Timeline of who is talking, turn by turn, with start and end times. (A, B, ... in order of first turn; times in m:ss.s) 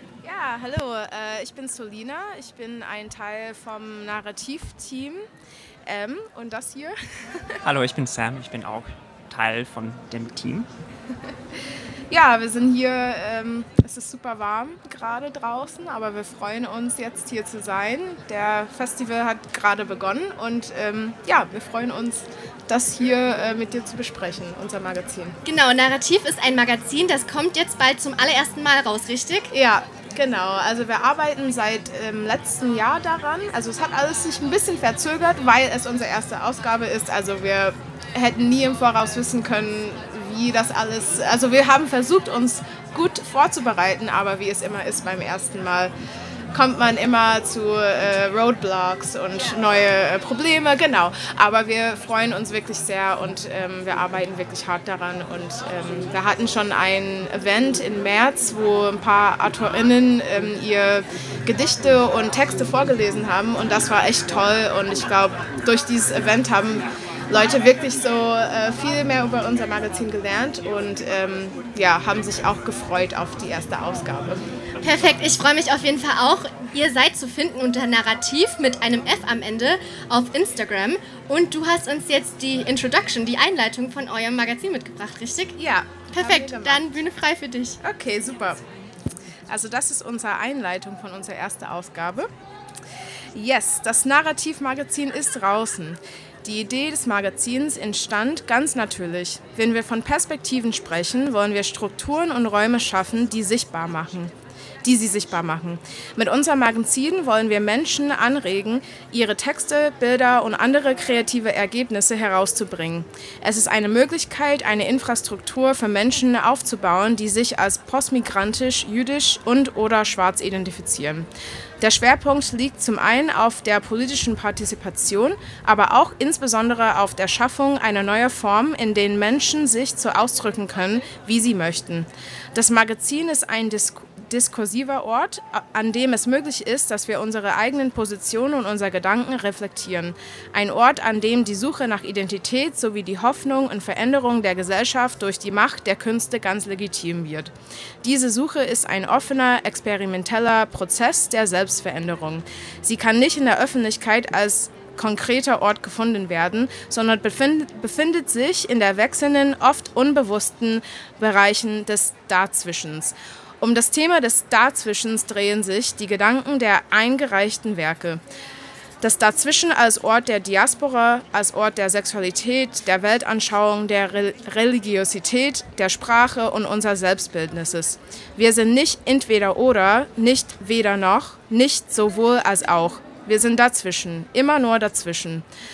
0:00.2-0:05.2 A
0:05.8-0:07.6 A
0:07.6-0:10.7 B
0:12.1-0:25.4 A
0:25.4-0:29.5 C
0:29.5-0:45.9 A
0:46.5-1:14.4 A
1:14.8-1:25.6 C
1:25.6-1:26.8 A
1:26.1-1:27.8 C
1:27.8-1:28.6 A
1:29.5-1:32.3 A
1:33.3-1:44.3 A
1:44.8-2:01.3 A
2:01.8-2:27.5 A
2:28.0-2:48.2 A
2:49.0-3:05.5 A